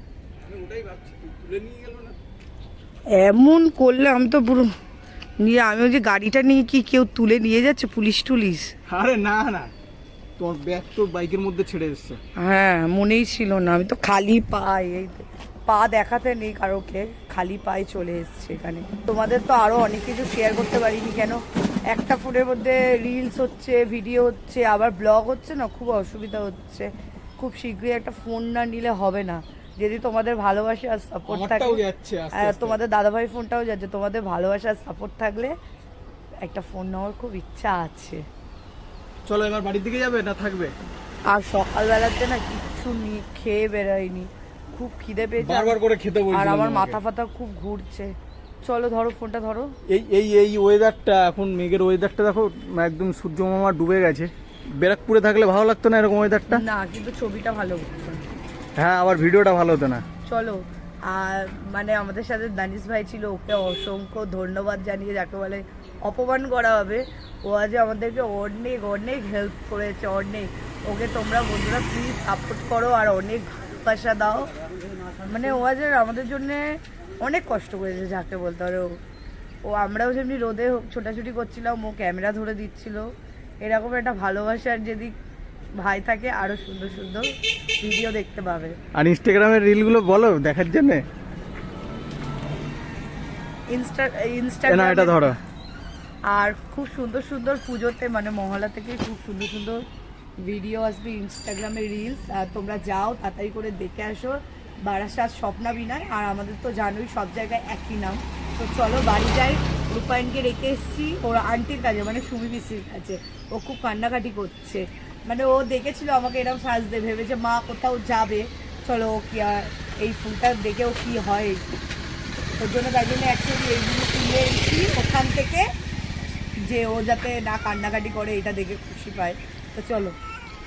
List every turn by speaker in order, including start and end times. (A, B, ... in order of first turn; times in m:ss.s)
0:00.4-0:02.2 A
0:03.1-0:04.7 B
0:05.4-0:08.7 B
0:08.9-0:09.7 A
0:10.4-0:12.2 A
0:12.4-0:31.8 B
0:31.3-0:32.8 A
0:32.3-0:35.5 B
0:36.4-0:38.2 B
0:39.2-0:40.7 A
0:41.3-0:45.8 B
0:45.4-0:47.0 A
0:46.3-0:49.7 B
0:49.9-0:56.6 A
0:56.5-0:58.3 B
0:58.8-1:00.0 A
1:00.2-1:14.5 B
1:15.2-1:19.0 B
1:19.6-1:23.1 B
1:23.6-1:25.1 B
1:25.8-1:27.3 B
1:27.8-1:28.8 B
1:29.0-1:31.0 A
1:33.7-1:35.3 B
1:34.7-1:35.4 A
1:36.3-1:39.8 B
1:40.4-2:01.6 B
2:02.6-2:05.7 B
2:06.6-2:10.1 B